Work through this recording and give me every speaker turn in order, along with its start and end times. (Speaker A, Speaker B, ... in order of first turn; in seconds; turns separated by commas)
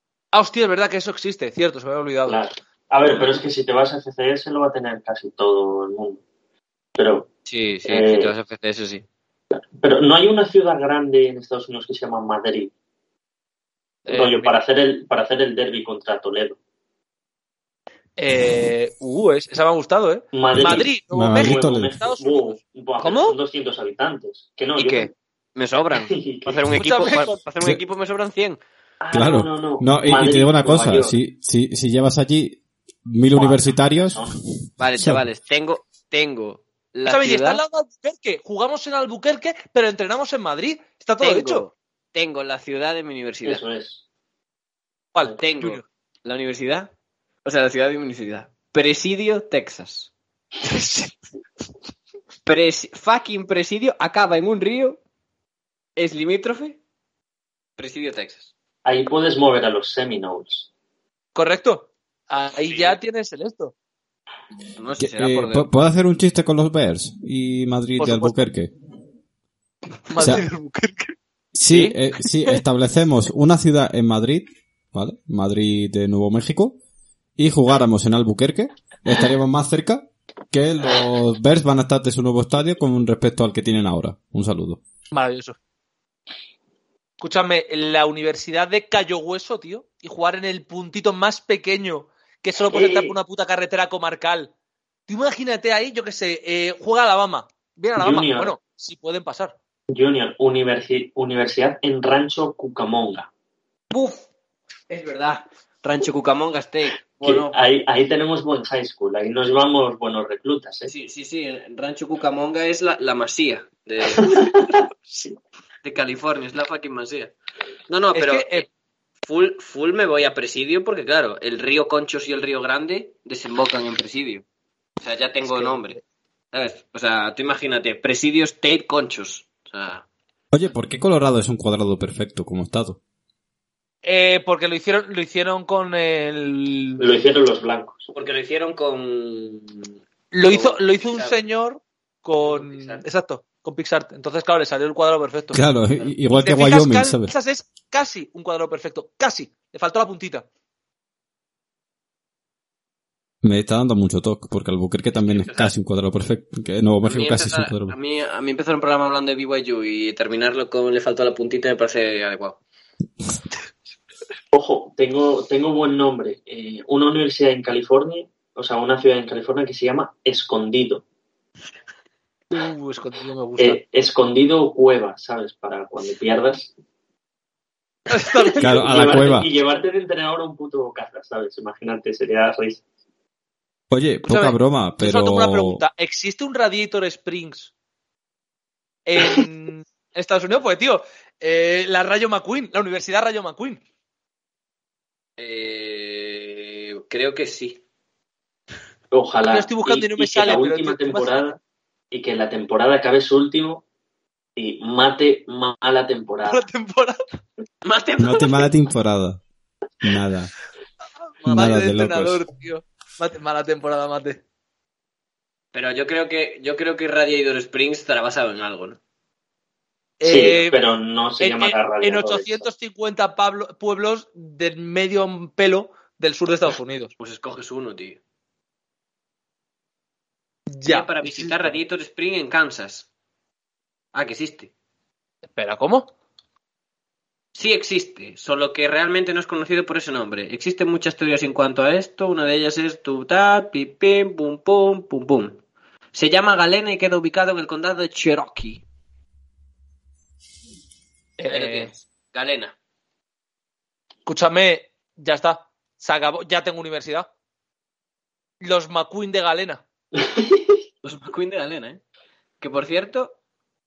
Speaker A: 0.3-2.4, Speaker B: 2.2-6.2, Speaker B: 7.0-7.3, Speaker C: 7.5-9.0, Speaker B: 7.8-8.3, Speaker B: 9.5-12.7, Speaker A: 14.1-14.5, Speaker B: 14.1-16.6, Speaker A: 18.2-23.3, Speaker B: 20.3-25.1, Speaker D: 20.5-21.9, Speaker C: 23.0-23.3, Speaker C: 24.8-28.6, Speaker B: 25.9-26.6, Speaker A: 26.8-27.4, Speaker B: 29.0-31.2, Speaker D: 29.1-35.2, Speaker B: 33.3-34.3, Speaker C: 34.8-37.6, Speaker A: 37.1-41.6, Speaker C: 41.2-43.6, Speaker B: 43.4-44.0, Speaker A: 45.1-45.8, Speaker C: 45.4-46.9, Speaker C: 47.4-50.1, Speaker A: 50.6-51.1, Speaker C: 52.5-55.0, Speaker C: 56.0-56.8, Speaker C: 57.8-58.5, Speaker B: 58.8-60.7, Speaker A: 61.3-63.7, Speaker C: 62.6-63.0, Speaker C: 64.8-65.7, Speaker D: 65.0-68.7, Speaker A: 68.0-68.4, Speaker A: 70.1-71.2, Speaker D: 70.2-70.5, Speaker D: 71.5-76.8, Speaker A: 71.7-72.5, Speaker D: 77.4-84.8, Speaker A: 85.1-85.6, Speaker A: 87.2-94.5, Speaker B: 92.7-93.1, Speaker A: 95.1-99.5, Speaker B: 98.0-98.5, Speaker B: 99.9-103.3, Speaker A: 103.9-104.2, Speaker C: 104.9-107.6, Speaker B: 107.2-110.9, Speaker C: 110.8-114.3, Speaker B: 114.2-114.5, Speaker C: 115.8-117.3, Speaker C: 117.9-118.7, Speaker A: 118.1-118.7, Speaker C: 119.2-124.4, Speaker C: 125.0-126.0, Speaker A: 125.4-125.9, Speaker C: 126.5-130.1, Speaker D: 130.5-133.0, Speaker A: 134.0-137.0, Speaker B: 137.0-138.1, Speaker C: 138.1-141.3, Speaker A: 140.3-145.6, Speaker C: 142.4-143.0, Speaker D: 145.5-147.3, Speaker A: 146.3-150.4, Speaker D: 153.4-157.9, Speaker C: 155.1-155.7, Speaker C: 157.0-162.6, Speaker B: 164.5-171.0, Speaker A: 172.5-173.8, Speaker B: 173.6-176.7, Speaker A: 178.1-178.7, Speaker B: 178.4-182.8, Speaker D: 178.6-179.5, Speaker D: 183.9-185.8, Speaker A: 184.2-187.7, Speaker A: 189.1-193.8, Speaker C: 195.4-197.8, Speaker B: 199.1-201.6, Speaker A: 199.5-201.4, Speaker B: 202.1-203.8, Speaker B: 204.6-206.7, Speaker A: 206.4-207.2, Speaker C: 207.8-208.7, Speaker D: 208.2-209.4, Speaker D: 210.0-210.5, Speaker A: 211.4-214.4, Speaker D: 211.4-212.4, Speaker C: 215.7-219.0, Speaker A: 220.2-220.8, Speaker B: 220.2-222.6, Speaker A: 221.4-227.1, Speaker C: 227.2-228.2, Speaker A: 230.7-231.7, Speaker C: 230.8-233.1, Speaker C: 234.1-234.7, Speaker A: 235.4-236.1, Speaker C: 237.5-245.6, Speaker C: 246.1-248.8, Speaker A: 251.4-251.9, Speaker C: 251.5-252.7, Speaker A: 254.2-257.3, Speaker A: 258.6-259.8, Speaker B: 260.2-260.6, Speaker C: 261.0-262.0, Speaker C: 262.6-263.4